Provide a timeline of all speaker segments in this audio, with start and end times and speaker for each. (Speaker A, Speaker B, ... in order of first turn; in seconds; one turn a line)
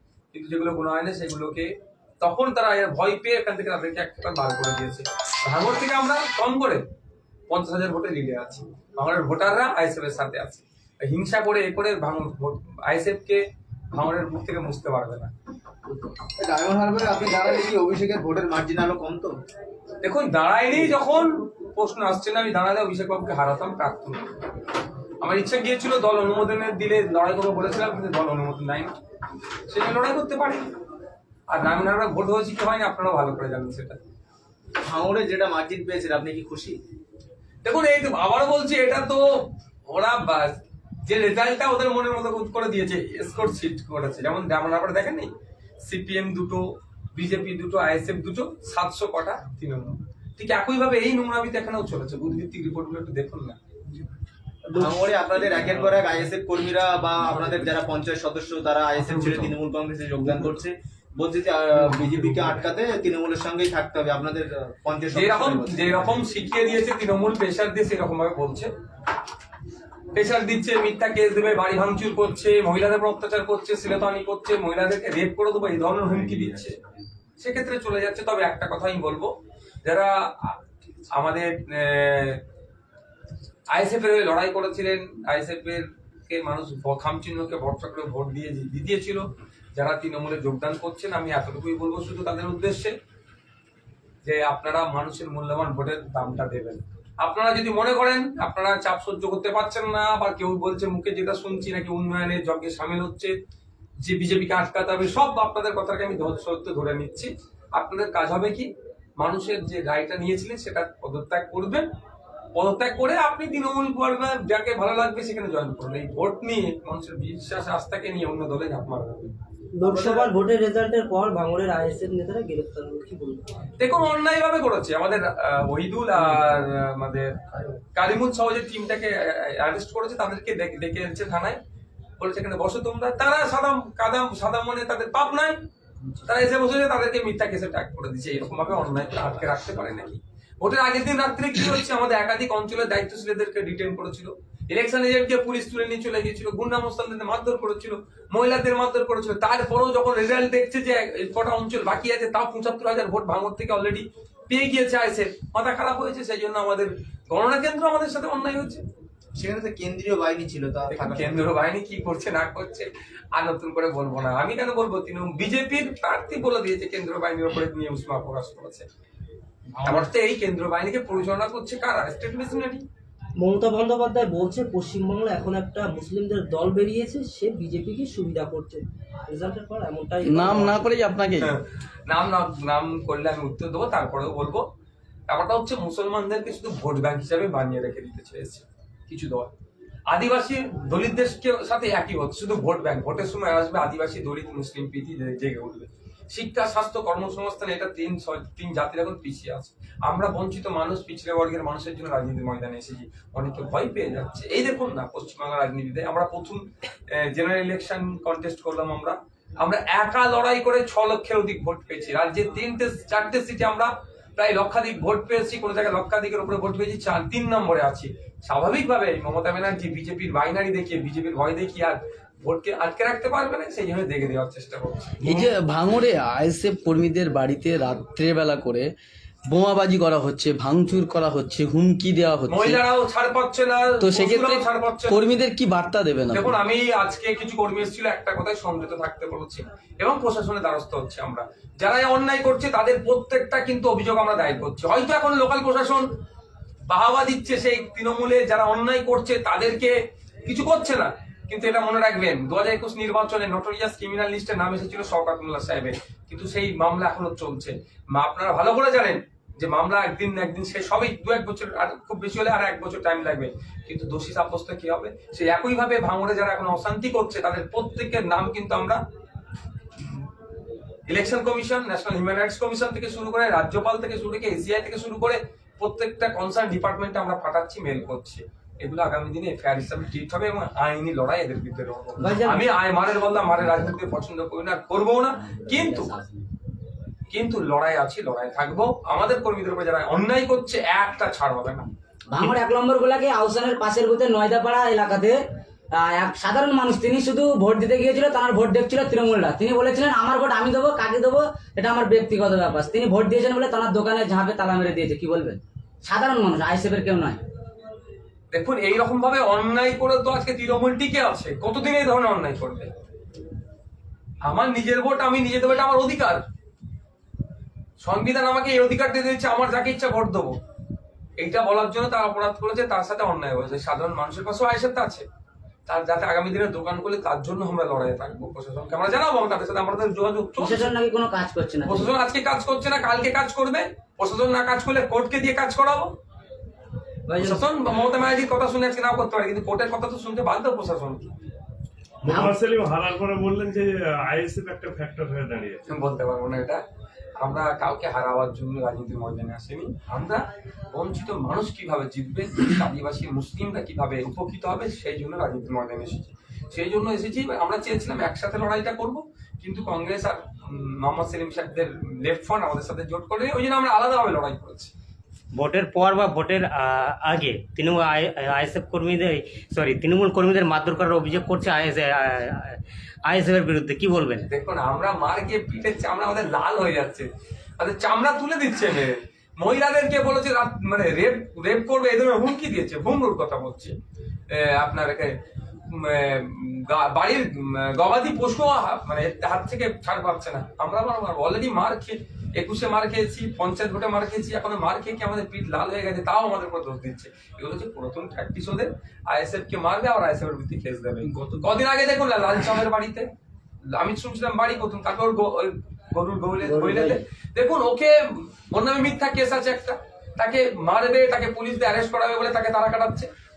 Speaker A: 0.3-6.8
Speaker A: 7.5-13.4
Speaker A: 13.9-15.3
Speaker B: 16.2-19.4
Speaker A: 20.0-24.3
Speaker A: 25.2-28.9
Speaker A: 29.7-30.7
Speaker A: 31.5-34.0
Speaker B: 34.8-36.8
Speaker A: 37.6-45.3
Speaker A: 45.8-53.6
Speaker C: 54.7-55.1
Speaker B: 54.7-66.0
Speaker A: 65.1-68.7
Speaker A: 70.1-76.8
Speaker A: 77.4-82.4
Speaker A: 83.7-92.9
Speaker A: 94.2-103.3
Speaker A: 104.0-111.9
Speaker A: 112.5-119.3
Speaker C: 119.7-123.5
Speaker B: 119.8-120.3
Speaker A: 123.8-131.6
Speaker A: 132.2-135.6
Speaker A: 136.2-158.8
Speaker B: 159.3-161.5
Speaker A: 160.9-168.8
Speaker A: 169.8-172.8
Speaker C: 173.4-180.8
Speaker D: 180.2-181.5
Speaker A: 181.4-184.7
Speaker A: 185.3-189.5
Speaker A: 190.1-225.5
Speaker D: 225.2-228.9
Speaker D: 229.5-232.8
Speaker A: 232.5-235.2
Speaker D: 234.0-236.5
Speaker A: 236.3-246.1
Speaker A: 246.9-269.0
Speaker A: 270.0-270.3
Speaker A: 271.1-286.1
Speaker C: 282.2-282.6
Speaker E: 285.7-286.4
Speaker A: 287.3-291.9
Speaker E: 292.3-295.4
Speaker E: 296.0-307.4
Speaker A: 308.5-312.9
Speaker A: 314.4-316.4
Speaker A: 318.0-320.6
Speaker A: 321.4-325.2
Speaker A: 325.9-330.9
Speaker E: 330.6-332.1
Speaker A: 331.8-336.1
Speaker C: 337.3-337.6
Speaker A: 337.4-341.3
Speaker F: 342.2-345.8
Speaker A: 345.9-346.8
Speaker A: 347.4-364.9
Speaker G: 365.5-374.5
Speaker A: 374.5-383.9
Speaker A: 384.5-403.3
Speaker A: 403.9-413.3
Speaker C: 406.6-407.2